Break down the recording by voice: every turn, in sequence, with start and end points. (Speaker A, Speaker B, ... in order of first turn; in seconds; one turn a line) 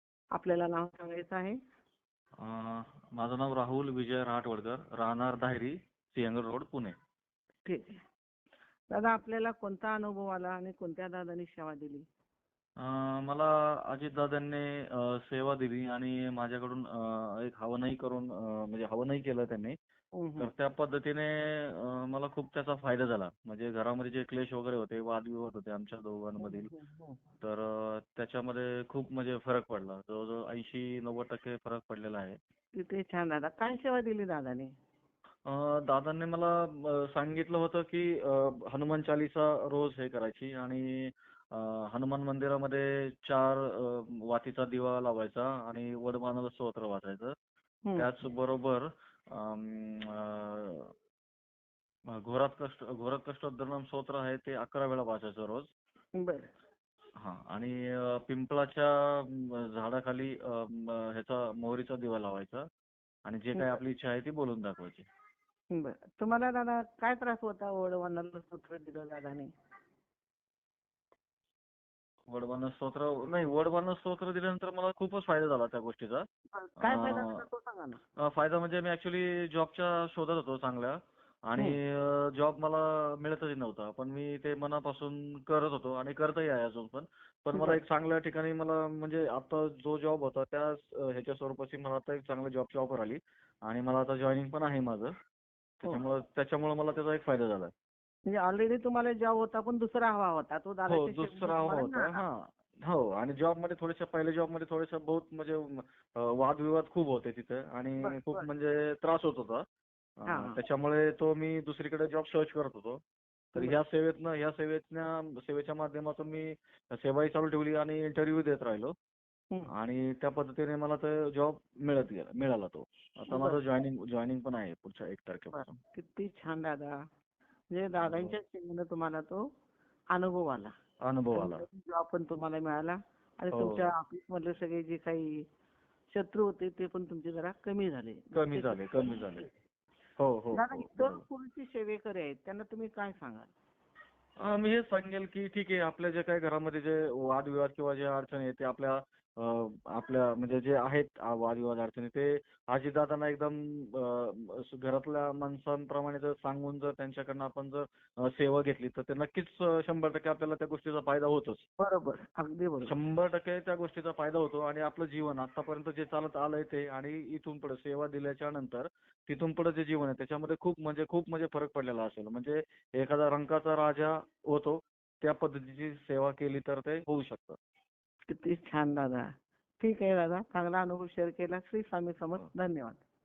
Speaker A: 0.3-1.6
Speaker B: 2.4-7.0
Speaker A: 7.7-8.0
Speaker A: 8.9-12.0
Speaker B: 12.8-19.8
Speaker A: 20.2-20.5
Speaker B: 20.4-26.7
Speaker A: 26.4-27.2
Speaker B: 27.4-32.4
Speaker A: 32.8-34.7
Speaker B: 35.5-47.3
Speaker A: 47.8-48.1
Speaker B: 48.0-50.9
Speaker B: 52.1-55.7
Speaker A: 56.2-56.5
Speaker B: 57.2-62.7
Speaker B: 63.2-65.1
Speaker A: 65.7-69.5
Speaker B: 72.3-76.3
Speaker A: 76.5-78.0
Speaker B: 76.8-77.4
Speaker B: 78.2-95.1
Speaker A: 87.5-87.8
Speaker B: 95.8-97.7
Speaker A: 98.3-102.2
Speaker B: 100.9-109.6
Speaker A: 108.0-108.5
Speaker B: 110.2-113.0
Speaker A: 110.3-110.6
Speaker B: 113.5-118.9
Speaker B: 119.7-125.8
Speaker A: 123.3-123.6
Speaker A: 125.5-126.9
Speaker A: 127.7-129.4
Speaker B: 128.0-128.4
Speaker A: 130.1-130.7
Speaker B: 131.0-131.7
Speaker A: 131.3-135.4
Speaker B: 133.5-133.9
Speaker A: 136.1-139.2
Speaker B: 138.3-139.5
Speaker B: 140.2-141.2
Speaker A: 140.5-143.5
Speaker B: 144.4-161.7
Speaker A: 161.8-162.9
Speaker B: 162.8-177.6
Speaker A: 178.3-179.3
Speaker A: 179.8-183.0